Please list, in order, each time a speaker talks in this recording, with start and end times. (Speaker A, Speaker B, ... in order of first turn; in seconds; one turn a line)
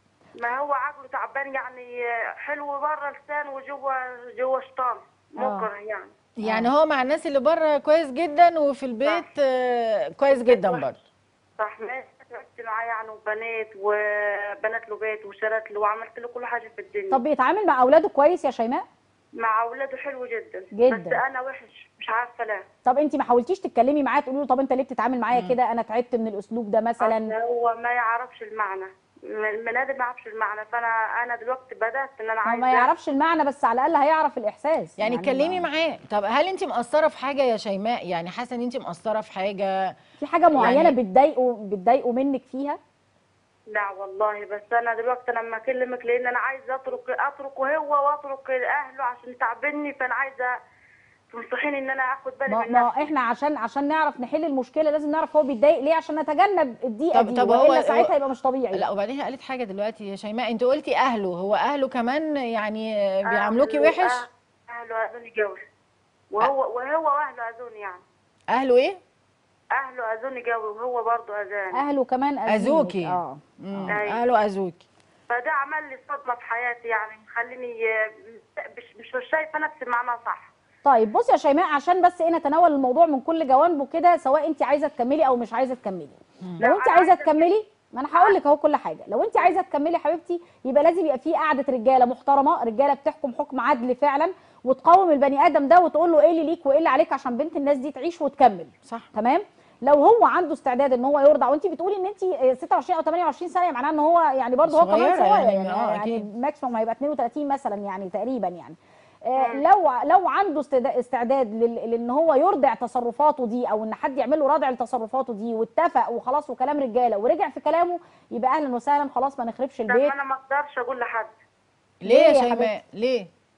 Speaker A: 0.4-6.1
Speaker B: 5.4-5.7
Speaker C: 6.4-11.0
Speaker B: 6.4-6.7
Speaker A: 10.3-10.9
Speaker A: 11.6-17.2
Speaker B: 17.1-18.9
Speaker A: 19.4-22.6
Speaker B: 20.7-21.2
Speaker B: 22.8-27.3
Speaker C: 25.3-25.6
Speaker A: 27.0-32.9
Speaker B: 32.5-35.6
Speaker C: 35.0-39.9
Speaker B: 40.2-42.8
Speaker C: 40.5-41.0
Speaker A: 43.7-50.5
Speaker A: 51.3-53.1
Speaker B: 52.5-58.8
Speaker C: 57.1-58.1
Speaker C: 58.7-64.2
Speaker A: 63.3-65.6
Speaker A: 66.3-68.0
Speaker C: 68.5-69.0
Speaker A: 69.7-71.8
Speaker B: 71.7-73.9
Speaker C: 72.5-74.8
Speaker A: 73.9-74.2
Speaker A: 75.3-80.5
Speaker B: 80.8-120.1
Speaker A: 86.6-87.6
Speaker C: 98.8-99.1
Speaker C: 104.6-106.2
Speaker A: 109.4-109.7
Speaker A: 119.9-121.3
Speaker C: 122.0-123.3
Speaker B: 122.0-122.8